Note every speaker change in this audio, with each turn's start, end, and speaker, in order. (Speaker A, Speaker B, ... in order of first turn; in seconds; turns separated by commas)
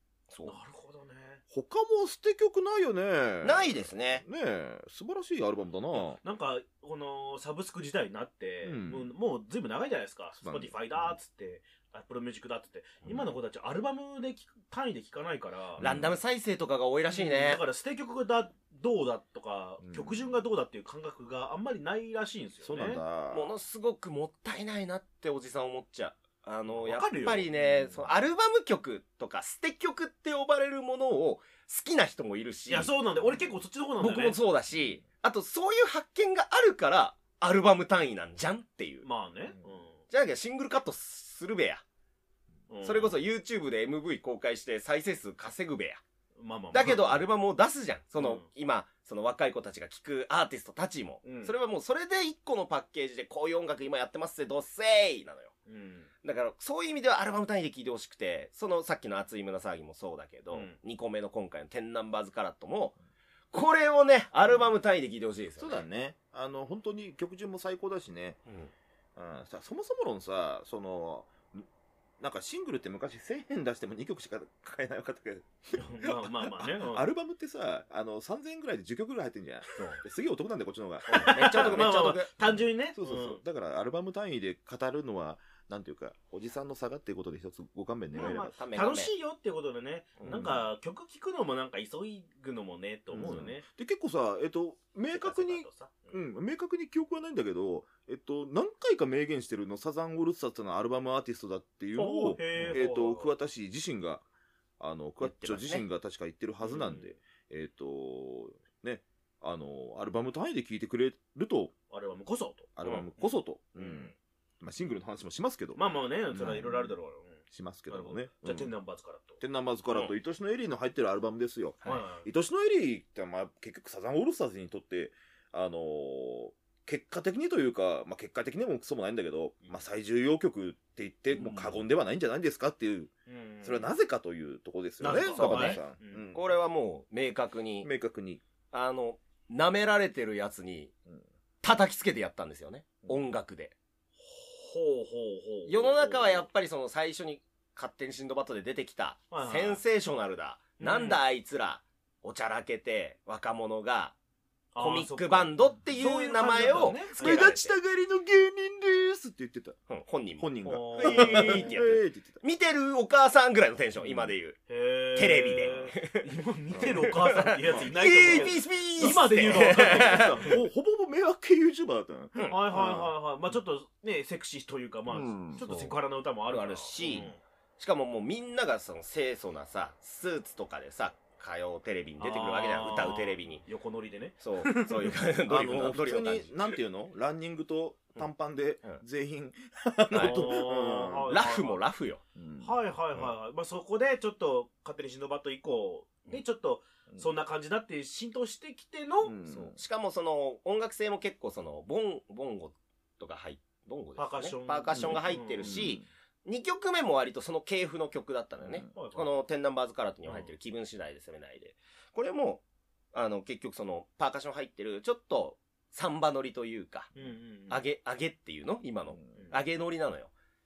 Speaker A: 0.3-0.6, Speaker B: 0.4-1.4, Speaker C: 1.5-6.2, Speaker A: 3.4-4.2, Speaker B: 5.9-15.8, Speaker C: 8.6-9.1, Speaker C: 10.4-11.2, Speaker C: 15.8-16.2, Speaker A: 15.8-17.6, Speaker B: 17.1-23.0, Speaker C: 19.8-20.4, Speaker C: 22.6-23.5, Speaker A: 23.3-32.9, Speaker B: 26.7-27.7, Speaker B: 32.7-34.4, Speaker A: 34.0-39.1, Speaker B: 39.0-40.0, Speaker A: 40.1-41.8, Speaker B: 42.7-43.2, Speaker A: 42.8-46.0, Speaker B: 46.4-47.2, Speaker A: 46.7-55.5, Speaker B: 48.2-48.5, Speaker B: 51.2-51.5, Speaker B: 55.7-56.1, Speaker A: 56.2-63.0, Speaker B: 60.5-60.8, Speaker A: 63.5-65.8, Speaker C: 65.6-68.4, Speaker A: 68.5-68.7, Speaker C: 69.2-71.7, Speaker C: 72.2-81.9, Speaker B: 75.8-77.1, Speaker B: 79.8-80.0, Speaker A: 81.1-82.3, Speaker B: 81.1-83.4, Speaker C: 82.5-88.6, Speaker B: 88.1-93.6, Speaker A: 88.5-89.1, Speaker C: 90.2-90.6, Speaker C: 93.1-104.2, Speaker B: 95.1-96.2, Speaker B: 101.9-103.3, Speaker A: 102.6-102.8, Speaker C: 104.8-111.7, Speaker A: 105.2-105.8, Speaker B: 106.6-107.1, Speaker B: 111.9-114.1, Speaker C: 112.8-115.8, Speaker B: 115.8-120.2, Speaker C: 116.3-116.9, Speaker C: 117.5-118.7, Speaker C: 119.4-136.5, Speaker B: 121.8-122.3, Speaker B: 131.3-131.8, Speaker B: 133.3-133.9, Speaker B: 135.0-136.2, Speaker A: 135.3-135.8, Speaker A: 136.3-137.9, Speaker C: 137.8-138.4, Speaker A: 138.7-140.9, Speaker A: 141.6-143.8, Speaker B: 144.2-146.5, Speaker A: 145.7-154.2, Speaker B: 149.3-149.8, Speaker B: 150.8-151.2, Speaker B: 154.7-157.5, Speaker A: 154.8-157.8, Speaker C: 157.1-159.8, Speaker A: 159.9-164.6, Speaker C: 160.4-162.4, Speaker B: 160.6-161.8, Speaker C: 164.0-164.3, Speaker B: 164.7-170.6, Speaker A: 165.1-166.2, Speaker C: 166.7-167.0, Speaker A: 166.9-170.5, Speaker C: 167.7-173.1, Speaker B: 172.5-177.4, Speaker C: 175.1-175.7, Speaker A: 175.6-176.0, Speaker A: 176.5-183.6, Speaker B: 182.2-185.1, Speaker A: 184.4-186.6, Speaker C: 185.5-191.3, Speaker A: 190.1-190.5, Speaker B: 190.1-191.8, Speaker A: 191.3-192.2, Speaker C: 192.3-192.8, Speaker B: 192.6-199.3, Speaker C: 199.2-199.8, Speaker A: 199.5-217.1, Speaker B: 204.2-205.8, Speaker C: 204.9-206.1, Speaker C: 208.6-208.9, Speaker B: 208.9-209.4, Speaker B: 210.2-210.5, Speaker B: 217.1-217.8, Speaker A: 217.7-220.3, Speaker B: 219.3-219.6